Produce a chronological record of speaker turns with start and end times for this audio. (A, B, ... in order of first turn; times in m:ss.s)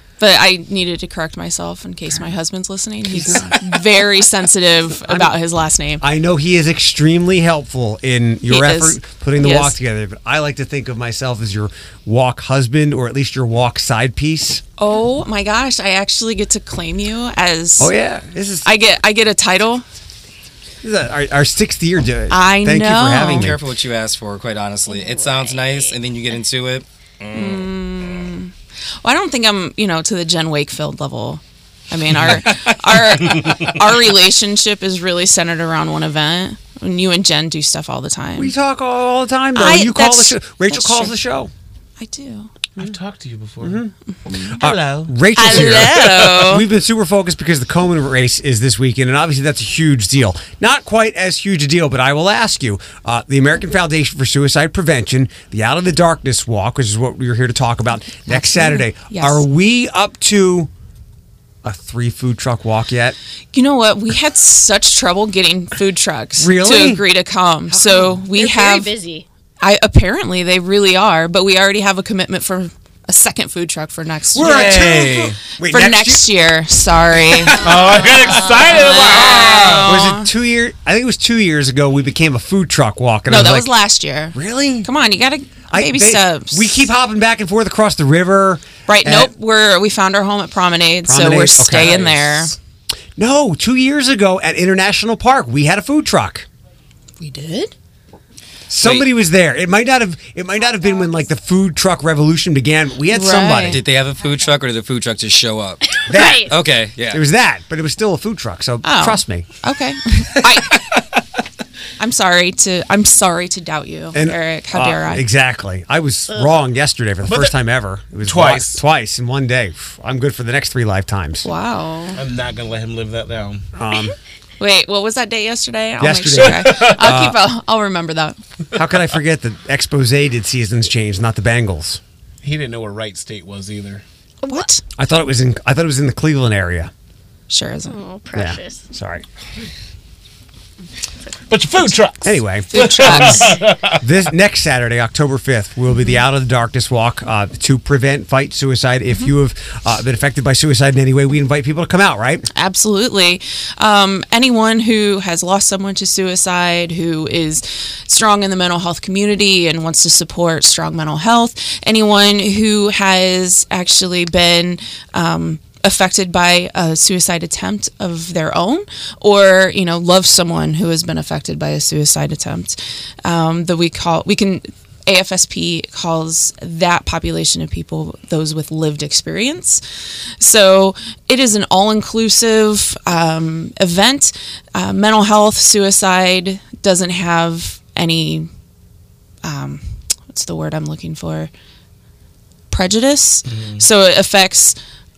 0:00.2-0:06.0 A
0:03.1-0:03.6 B
0:05.0-0:05.4 B
0:06.0-0:14.6 B
0:08.5-0:09.8 A
0:14.8-0:17.9 A
0:17.8-0:18.7 B
0:18.6-0:19.8 A
0:20.8-0:23.6 B
0:22.3-0:23.5 A
0:23.3-0:28.2 C
0:25.2-0:25.9 D
0:27.3-0:28.5 A
0:29.0-0:38.5 A
0:32.3-0:32.8 C
0:38.4-0:41.5 B
0:39.6-0:41.2 A
0:42.0-0:42.5 A
0:42.8-0:43.8 E
0:43.6-0:43.9 B
0:44.5-0:46.4 E
0:44.6-1:00.7 B
0:45.3-0:46.6 A
0:58.3-0:59.4 A
1:01.6-1:03.2 B
1:03.5-1:08.9 A
1:06.4-1:07.0 B
1:07.8-1:09.2 D
1:09.6-1:14.8 A
1:14.4-1:16.3 B
1:14.4-1:15.4 E
1:15.7-1:17.6 A
1:17.6-1:20.0 E
1:18.3-1:19.2 D
1:18.6-1:20.3 A
1:19.8-1:23.7 B
1:23.3-1:26.9 A
1:24.3-1:24.9 B
1:25.7-1:29.3 B
1:28.9-1:32.5 A
1:31.0-1:32.5 B
1:33.2-1:36.5 B
1:37.2-1:37.7 A
1:38.7-1:43.8 B
1:43.1-1:43.8 A
1:43.7-1:47.2 C
1:46.1-1:46.5 B
1:46.1-1:46.5 D
1:47.1-1:49.5 B
1:48.8-1:50.7 A
1:52.0-1:55.2 A
1:54.1-2:01.5 B
1:57.3-1:57.5 E
1:58.2-1:58.8 E
2:01.4-2:02.2 A
2:02.2-2:03.6 E
2:03.8-2:04.2 B
2:04.6-2:08.4 A
2:06.0-2:07.4 B
2:06.4-2:07.2 E
2:08.7-2:12.0 B
2:12.4-2:14.0 E
2:14.5-2:14.8 A
2:15.0-2:16.9 B
2:17.5-2:18.0 A
2:17.9-2:18.8 D
2:18.3-2:19.2 B
2:21.5-2:24.0 E
2:22.2-2:32.5 B
2:22.7-2:23.6 A
2:32.5-2:59.8 A
3:00.4-3:08.5 A
3:09.4-3:11.5 A
3:12.7-3:14.8 A
3:13.5-3:13.9 E